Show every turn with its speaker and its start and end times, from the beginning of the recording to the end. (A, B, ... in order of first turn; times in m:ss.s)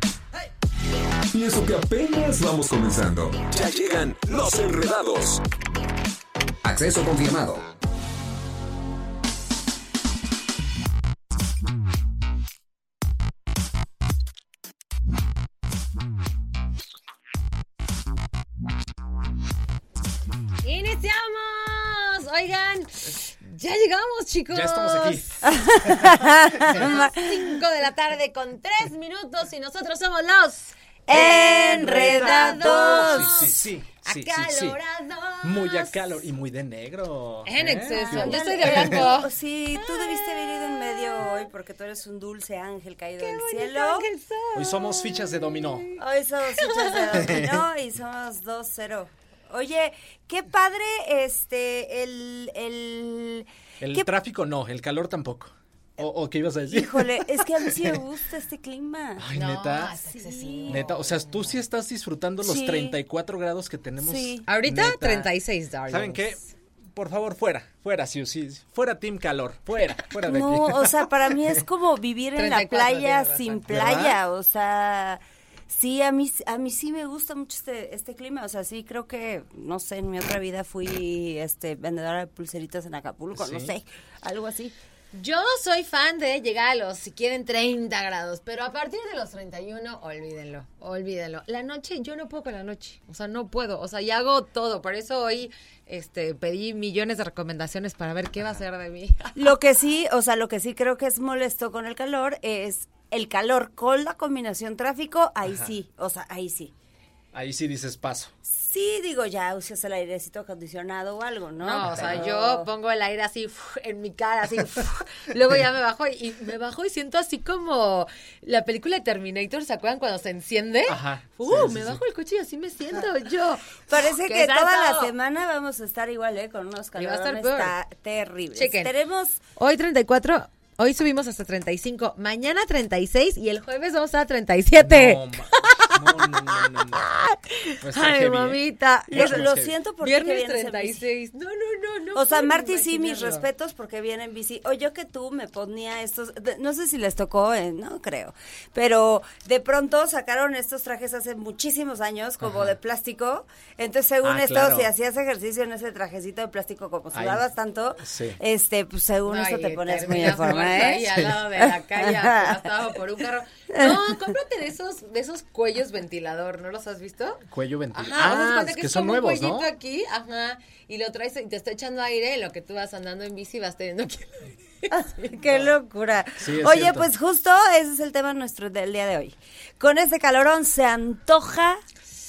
0:01.3-0:05.4 A
0:06.6-0:07.7 A
0:20.6-0:25.3 B
0:24.5-0:25.5 C
0:25.4-0:27.6 D
0:26.6-0:36.2 B
0:31.1-0:33.5 D
0:31.6-0:34.8 C
0:35.4-0:39.0 C
0:37.4-0:41.4 B
0:37.8-0:44.1 D
0:43.2-0:45.9 B
0:44.6-0:45.9 C
0:46.0-0:54.1 D
0:46.6-0:47.4 B
0:53.8-0:57.8 C
0:56.7-0:59.3 D
0:59.2-1:00.0 C
0:59.3-1:01.6 B
1:00.1-1:00.8 D
1:00.7-1:05.3 C
1:02.4-1:03.0 D
1:04.0-1:04.5 D
1:04.5-1:06.4 B
1:05.9-1:06.4 C
1:07.0-1:11.1 C
1:10.2-1:24.8 D
1:12.4-1:13.6 B
1:13.7-1:14.2 C
1:23.4-1:23.7 C
1:25.1-1:39.5 B
1:39.4-1:46.7 D
1:47.3-1:48.3 C
1:48.4-1:52.7 D
1:51.6-2:05.1 B
1:51.9-1:52.2 C
2:00.9-2:02.0 C
2:03.9-2:09.4 D
2:07.0-2:07.8 B
2:08.6-2:08.9 B
2:09.6-2:23.4 B
2:14.8-2:17.1 C
2:17.8-2:18.6 C
2:19.1-2:21.1 D
2:19.1-2:19.7 C
2:22.2-2:42.7 D
2:34.2-2:34.9 C
2:37.1-2:37.5 C
2:38.0-2:38.4 C
2:39.3-2:55.7 B
2:43.7-2:44.2 D
2:47.5-2:49.7 C
2:54.9-3:01.8 D
2:56.4-2:57.1 C